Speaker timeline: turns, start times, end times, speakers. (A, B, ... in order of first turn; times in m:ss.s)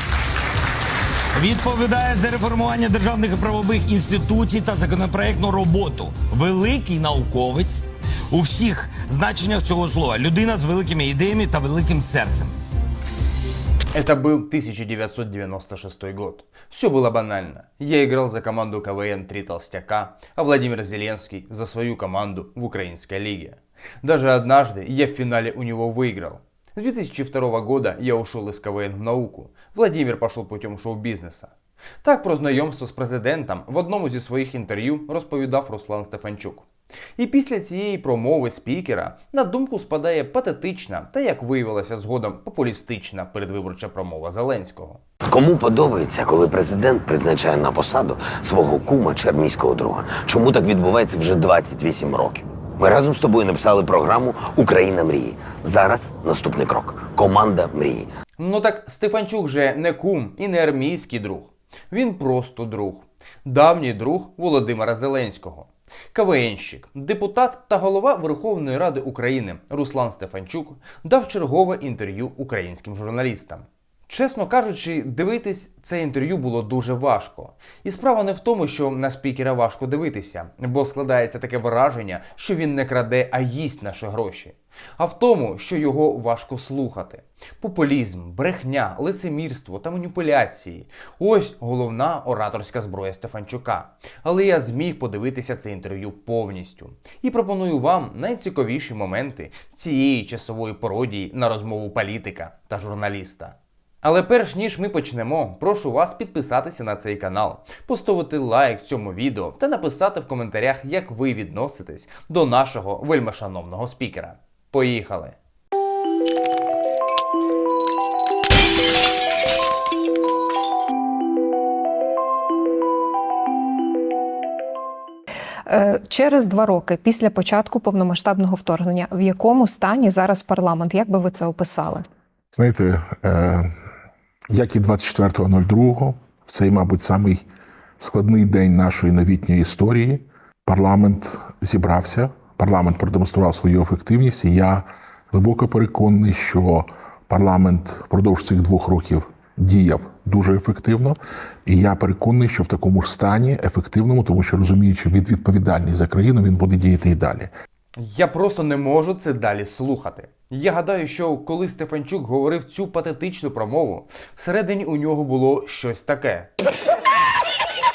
0:01.4-0:12.5 A
0:13.9-0:45.0 B
0:45.3-0:58.1 C
0:58.4-1:55.4 B
2:05.7-2:12.0 D
2:12.5-2:13.7 E
2:14.5-2:17.4 E
2:18.0-2:37.5 E
2:38.0-2:46.5 B